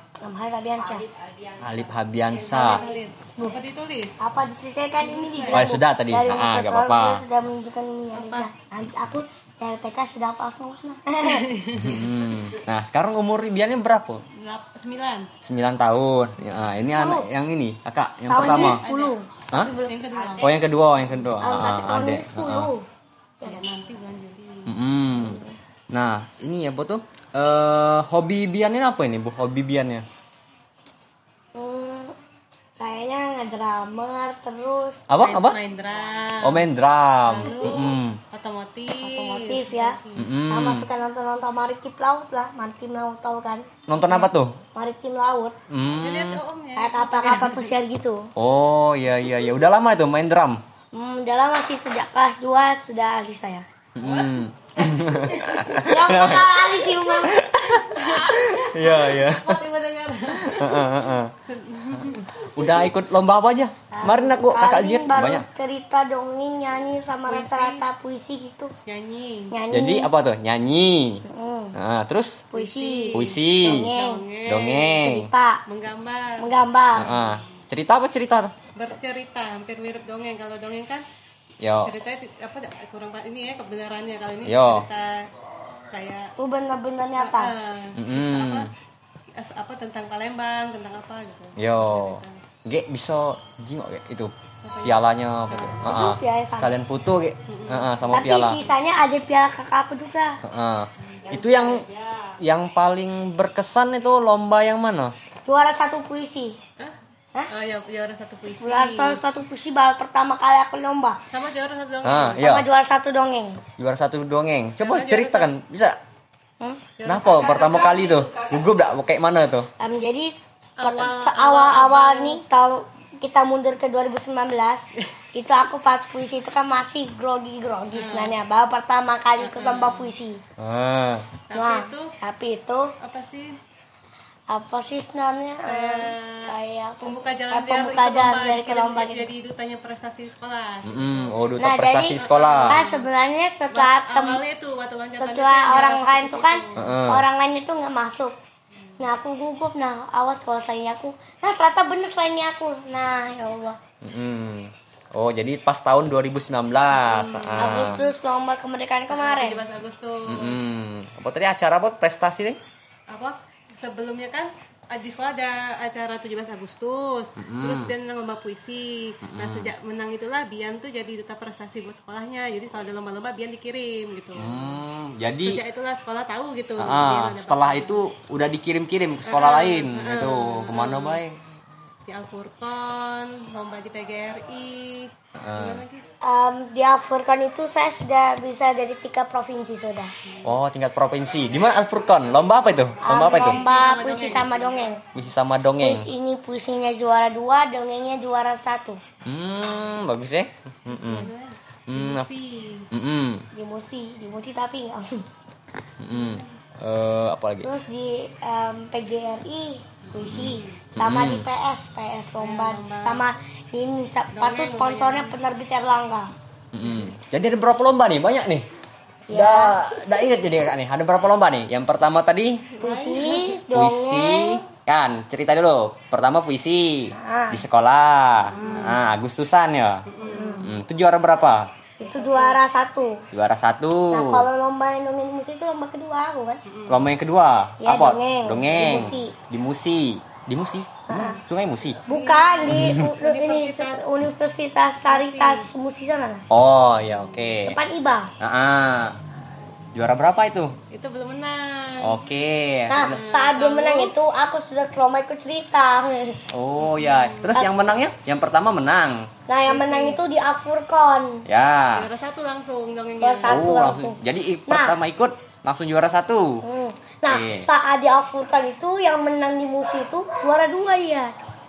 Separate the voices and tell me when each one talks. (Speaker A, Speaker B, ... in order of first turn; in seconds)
Speaker A: 0.2-1.1, 4.2-11.5, 16.9-17.2, 18.3-19.9, 21.4-22.8, 25.2-25.5, 31.5-32.1, 32.8-35.0, 37.4-37.9, 39.0-43.7, 44.7-45.5, 46.8-48.3, 50.9-53.6, 55.8-57.4, 63.9-68.7, 69.5-70.1, 71.3-71.7, 72.5-74.2, 75.0-75.6, 76.4-77.2, 86.4-87.5, 95.8-96.7, 98.1-100.4, 105.4-106.6, 108.6-111.2, 112.4-113.6, 119.8-130.4, 131.5-132.9, 134.5-139.3, 141.6-144.4, 145.2-148.3, 149.0-153.8, 157.6-159.6, 186.2-190.1, 193.0-195.0, 195.8-199.0, 203.5-205.2, 207.6-216.3, 219.3-219.8, 222.8-224.6, 227.1-227.6, 228.5-229.0, 230.2-230.7, 232.0-233.2, 234.1-236.6, 237.8-239.3, 241.1-241.4, 242.1-246.4, 247.7-248.3, 252.9-256.4, 257.6-257.9, 259.5-261.4, 263.2-265.0, 266.6-271.4
Speaker B: 1.6-2.8, 5.5-7.2, 11.8-14.2, 15.4-18.8, 19.5-19.8, 20.4-22.7, 24.6-30.1, 35.1-35.6, 36.4-38.2, 40.1-40.9, 43.9-44.5, 45.7-46.4, 48.4-50.6, 54.0-59.6, 60.4-61.3, 62.4-65.5, 69.7-72.5, 73.1-73.9, 74.5-75.3, 77.0-78.5, 81.6-81.9, 84.4-84.9, 87.9-88.7, 91.6-94.3, 94.8-98.6, 100.4-101.9, 102.4-105.1, 112.0-112.7, 113.8-116.0, 117.0-119.7, 130.6-131.4, 140.8-142.8, 146.8-147.2, 154.0-158.1, 160.2-162.6, 167.4-167.9, 169.2-169.7, 174.3-175.6, 176.8-181.4, 185.4-185.8, 190.4-193.6, 195.1-196.1, 199.2-201.3, 201.9-202.3, 202.9-203.5, 206.0-207.7, 210.3-211.4, 216.7-218.7, 219.3-222.7, 223.7-230.1, 230.6-231.7, 233.3-234.5, 236.9-242.0, 242.7-243.1, 246.5-247.8, 248.4-249.2, 249.9-250.7, 252.0-253.2, 256.5-259.3, 261.4-262.1, 263.5-266.6, 267.3-267.7
Speaker C: 2.3-4.2, 5.0-5.7, 8.1-8.5, 11.2-12.1, 14.3-15.3, 18.3-19.1, 19.8-20.6, 23.4-24.7, 35.2-36.7, 37.2-40.3, 44.0-44.3, 46.0-47.7, 54.0-55.7, 58.0-60.9, 61.4-62.4, 67.3-67.8, 68.8-69.5, 72.5-75.1, 75.7-76.5, 77.1-77.4, 78.7-81.0, 81.8-85.3, 85.9-86.3, 87.2-88.7, 89.3-92.4, 94.6-95.9, 97.5-98.3, 101.2-101.8, 107.5-109.2, 111.3-112.5, 114.8-115.5, 117.0-118.5, 120.8-122.4, 127.9-128.3, 129.4-130.1, 131.5-132.1, 133.0-133.6, 135.7-141.4, 142.1-143.1, 143.7-147.0, 157.1-157.6, 159.1-160.6, 163.1-174.8, 175.4-178.0, 179.2-181.2, 182.1-186.0, 193.1-194.7, 200.9-202.9, 206.1-206.4, 212.4-213.2, 214.3-215.4, 216.8-217.1, 222.8-223.6, 228.6-228.9, 230.1-230.7, 232.0-232.6, 236.7-237.1, 242.1-244.1, 245.1-245.7, 247.0-247.6, 250.9-252.2, 253.0-254.1, 256.8-257.6, 259.7-260.2, 261.9-263.6